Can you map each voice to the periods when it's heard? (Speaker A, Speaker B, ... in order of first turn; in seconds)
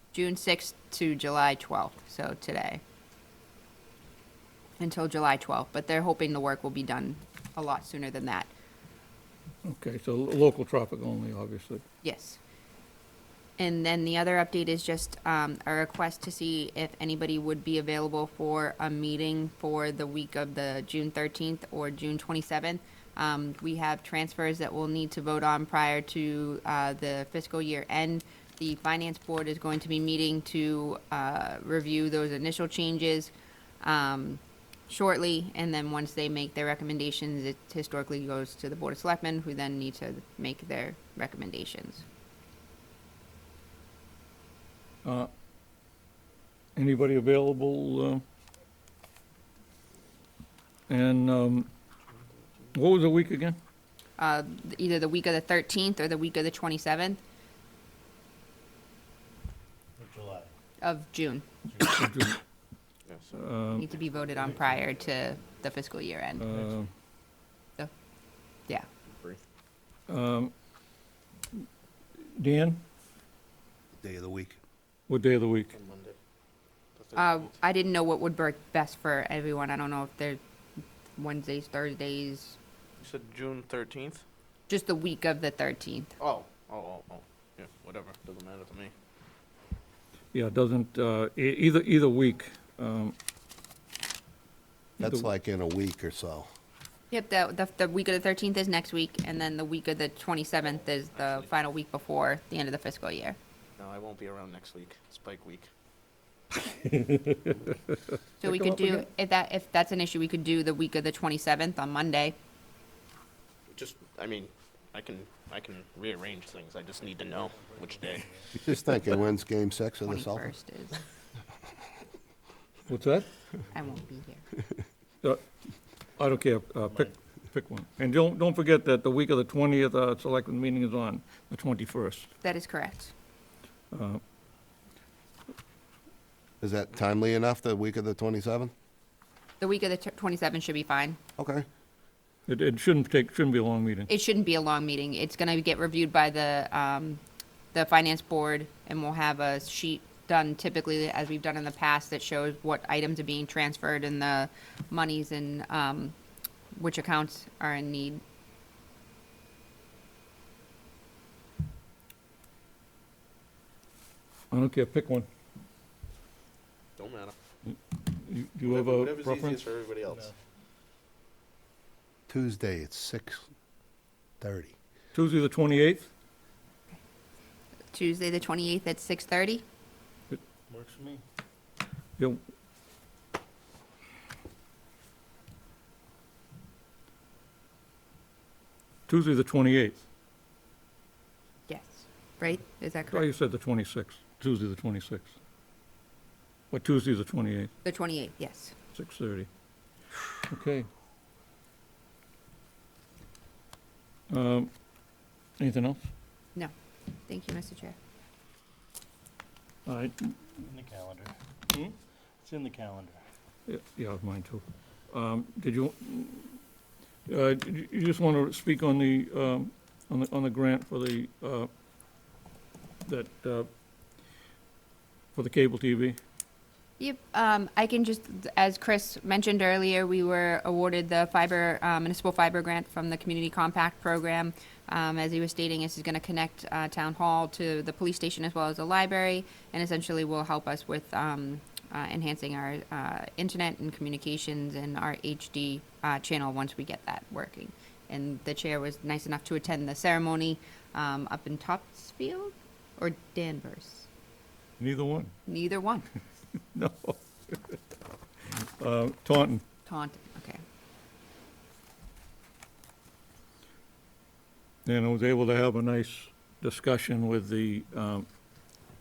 Speaker A: 0.1-2.8, 4.8-8.5, 12.0-12.4, 13.6-42.0, 54.2-57.2, 60.8-61.4, 63.7-66.4, 77.2-80.4, 81.2-82.6, 84.7-86.1, 97.1-103.4, 108.4-112.3, 120.0-121.0, 123.7-124.4, 132.4-133.1, 139.6-141.2, 144.1-147.2, 147.7-156.1, 156.7-158.2, 177.9-179.6, 191.7-193.2, 197.8-198.7, 207.3-207.9, 227.0-254.1, 255.5-256.1, 259.9-260.6
Speaker B: 9.6-11.8, 45.0-45.3, 46.8-48.2, 50.9-51.7, 52.7-53.6, 61.9-62.4, 63.3-63.9, 66.4-66.9, 70.1-70.5, 72.3-72.8, 75.1-75.7, 90.3-93.2, 95.0-95.3, 106.8-107.5, 108.5-109.0, 122.9-123.3, 126.2-132.3, 133.9-134.2, 142.5-144.1, 164.5-165.3, 167.7-169.6, 175.1-176.1, 189.1-190.0, 193.1-195.3, 196.7-197.7, 198.9-199.5, 200.4-200.9, 204.3-204.7, 205.6-206.0, 209.8-210.4, 213.7-216.6, 217.3-221.7, 223.1-223.7, 225.3-226.2, 254.8-255.3, 256.7-257.8, 258.5-259.6, 264.9-268.2
Speaker C: 60.0-60.5, 61.6-62.1, 66.5-66.8, 117.1-118.6, 123.6-124.0, 170.1-170.3, 180.7-181.2, 210.6-211.3, 212.4-213.2
Speaker D: 63.1-65.6, 69.0-69.4, 75.7-76.2, 77.0-77.5, 83.0-84.2, 86.2-88.9, 100.6-101.5, 103.8-105.7, 113.7-119.0, 167.0-167.3, 168.6-170.3
Speaker E: 74.0-74.6, 95.0-96.5, 118.6-120.5, 136.6-138.7, 141.4-141.7, 172.3-173.4, 174.4-174.7